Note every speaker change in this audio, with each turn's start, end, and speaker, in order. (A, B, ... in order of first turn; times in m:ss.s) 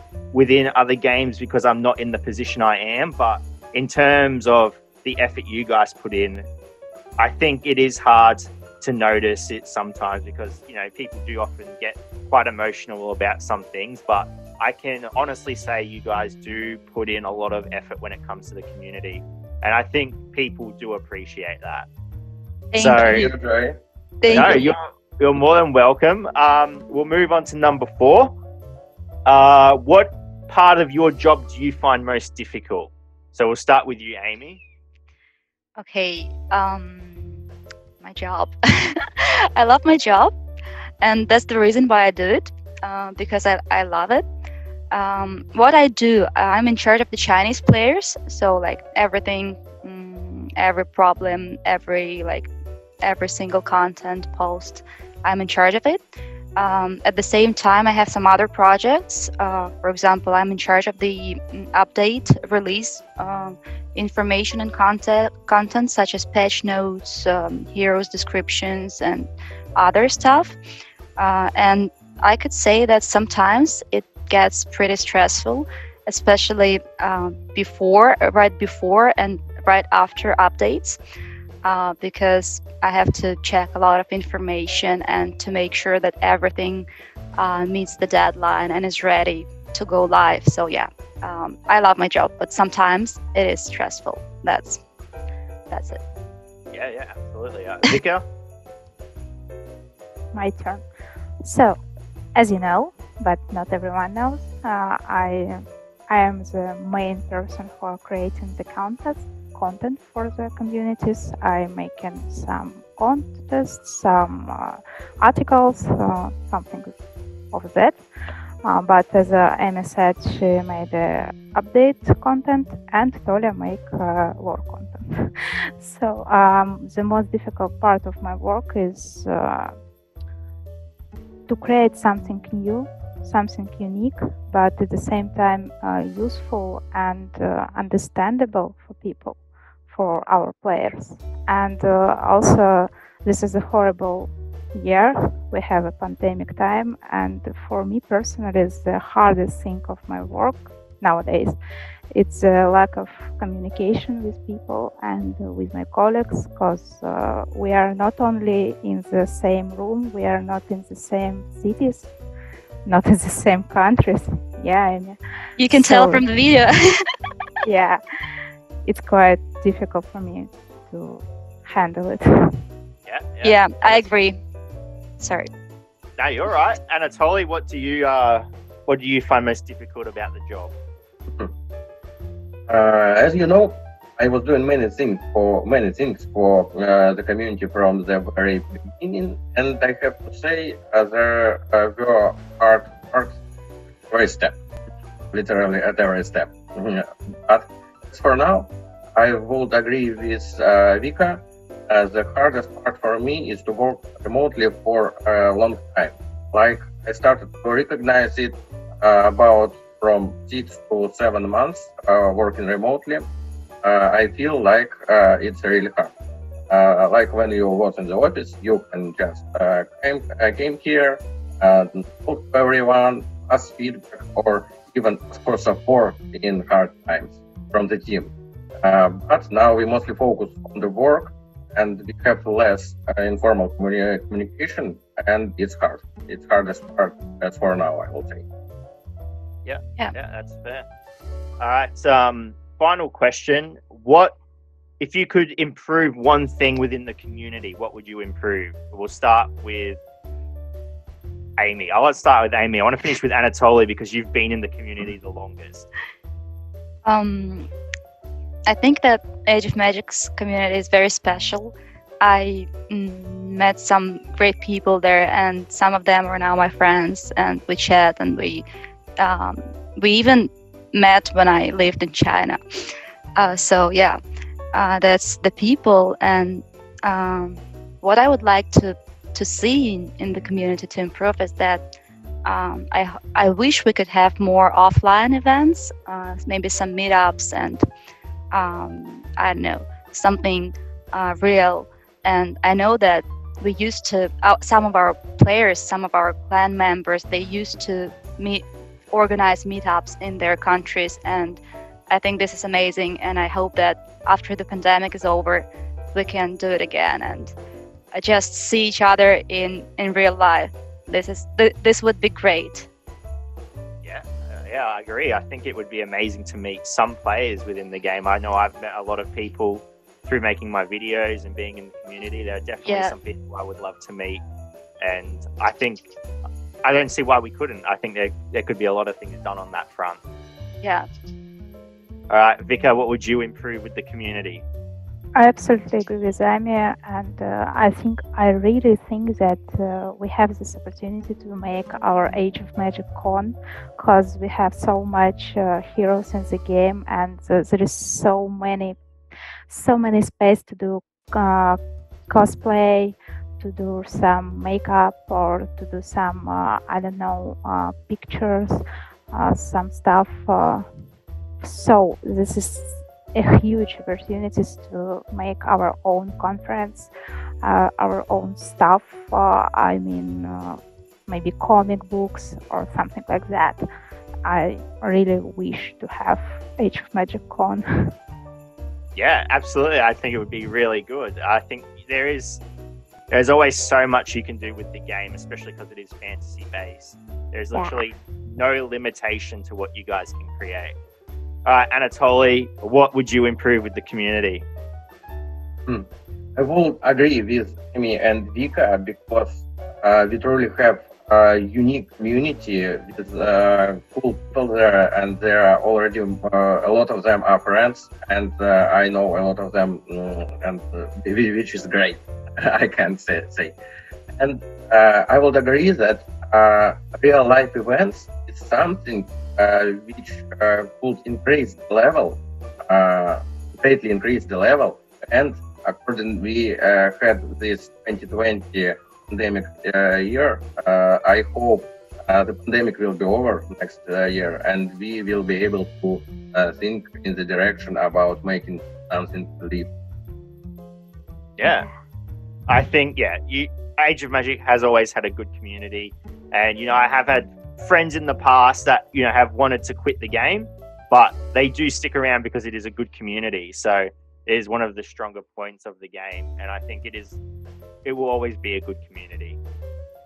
0:00.3-0:06.5 A
0:07.2-0:21.9 A
0:22.7-0:23.3 B
0:22.8-0:23.3 A
0:23.0-0:23.7 C
0:24.2-0:24.8 B
0:24.3-0:24.7 C
0:24.3-0:28.3 A
0:29.3-0:34.6 A
0:35.8-0:37.4 B
0:38.0-0:39.0 B
0:39.6-0:40.3 B
0:41.0-0:44.2 B
0:44.9-0:52.5 B
0:53.0-0:56.0 B
0:56.6-1:10.6 B
1:11.2-1:21.0 B
1:21.6-1:34.8 B
1:35.7-1:36.0 B
1:36.7-1:38.2 A
1:40.3-1:40.8 D
1:41.4-1:41.8 D
1:42.4-1:57.0 D
1:57.5-1:58.0 D
1:58.6-2:09.7 D
2:11.5-2:31.6 D
2:32.1-2:42.1 D
2:42.8-2:46.2 D
2:45.6-2:47.0 B
2:47.6-2:48.0 D
2:48.8-2:52.3 D
2:53.1-2:54.1 A
2:53.4-2:54.4 B
2:55.2-2:55.5 B
2:56.2-3:00.7 A
3:02.7-3:13.4 C
3:14.1-3:14.6 C
3:15.3-3:33.3 C
3:33.8-3:36.1 C
3:36.7-3:58.4 C
3:59.6-4:00.8 A
4:01.6-4:04.4 A
4:05.0-4:10.0 A
4:11.6-4:15.9 A
4:17.0-4:17.7 B
4:18.7-4:28.6 B
4:29.2-4:32.6 B
4:33.4-4:34.2 B
4:34.7-4:41.8 B
4:42.4-4:47.8 B
4:48.5-5:07.5 B
5:08.1-5:12.9 B
5:14.0-5:24.4 A
5:22.8-5:23.1 B
5:25.0-5:26.0 A
5:26.8-5:30.2 A
5:32.3-5:34.6 A
5:35.4-5:49.0 D
5:49.7-6:00.9 D
6:01.6-6:07.1 D
6:07.6-6:13.8 D
6:14.4-6:17.9 D
6:19.2-6:22.6 A
6:23.3-6:31.0 A
6:27.8-6:28.0 D
6:31.7-6:34.7 A
6:35.9-6:53.8 C
6:54.4-7:19.9 C
7:21.6-7:21.9 A
7:22.7-7:37.4 A
7:38.0-7:39.6 A